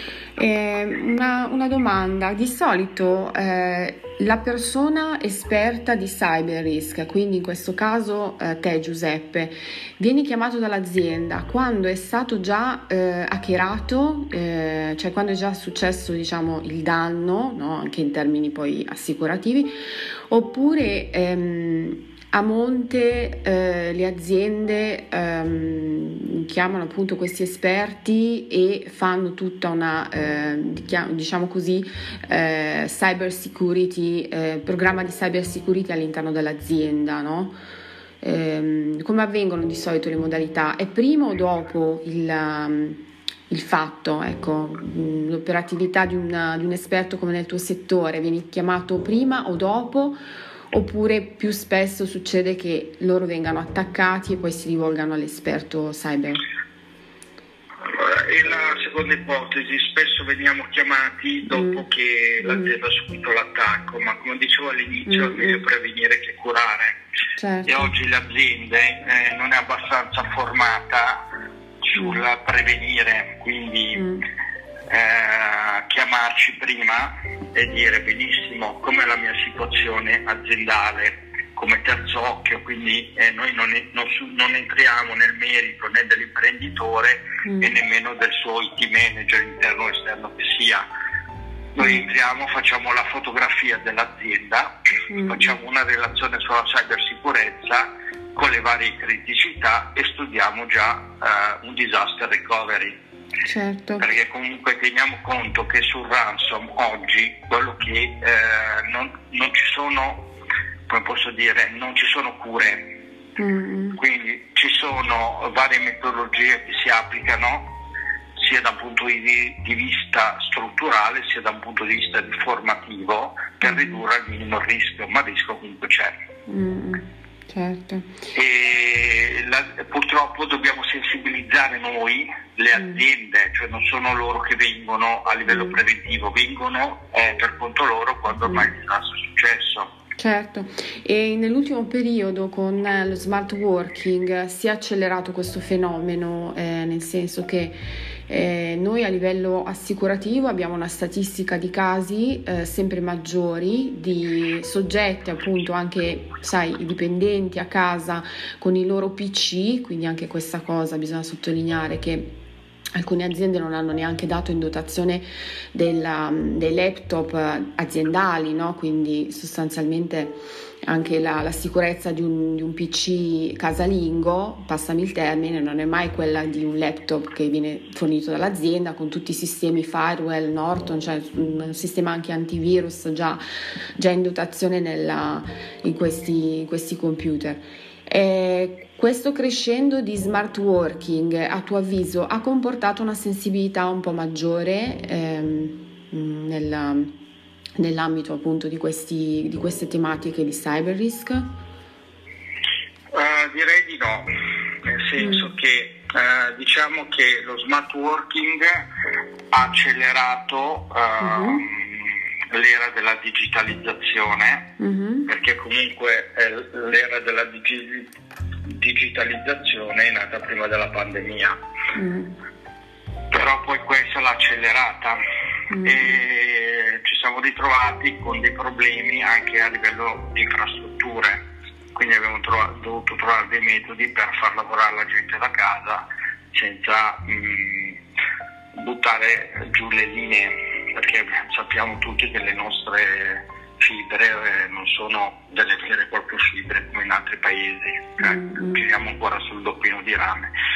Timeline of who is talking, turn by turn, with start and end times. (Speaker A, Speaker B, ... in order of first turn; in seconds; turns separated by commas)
Speaker A: 0.4-19.8, Speaker A: 20.3-37.6, Speaker A: 38.2-50.2, Speaker A: 50.7-56.4, Speaker B: 57.8-67.0, Speaker A: 61.5-61.9, Speaker A: 62.4-62.7, Speaker A: 65.1-65.6, Speaker A: 67.4-67.9, Speaker B: 67.7-71.2, Speaker B: 71.8-74.0, Speaker A: 72.0-72.2, Speaker A: 73.9-74.3, Speaker B: 74.9-90.8, Speaker A: 87.5-87.7, Speaker B: 91.8-94.7, Speaker A: 91.8-92.1, Speaker A: 95.1-95.5, Speaker B: 95.3-103.0, Speaker A: 103.5-104.1, Speaker B: 104.0-110.2, Speaker B: 110.9-112.9, Speaker A: 113.4-114.0, Speaker B: 114.0-117.7, Speaker B: 118.4-126.2, Speaker A: 123.6-124.0, Speaker A: 126.5-128.1, Speaker B: 128.3-139.9, Speaker A: 135.5-135.8, Speaker A: 138.4-138.7, Speaker A: 140.2-162.3, Speaker A: 162.9-183.4, Speaker A: 184.0-197.1, Speaker A: 197.8-201.5, Speaker B: 203.1-204.3, Speaker B: 204.8-208.9, Speaker A: 205.2-205.5, Speaker B: 209.5-214.7, Speaker A: 211.2-211.6, Speaker A: 214.8-215.3, Speaker B: 215.3-218.1, Speaker B: 218.7-221.6, Speaker A: 221.9-222.3, Speaker B: 223.3-225.2, Speaker A: 225.7-226.1, Speaker B: 225.8-231.4, Speaker B: 231.9-238.0, Speaker B: 238.7-250.5, Speaker A: 248.2-248.8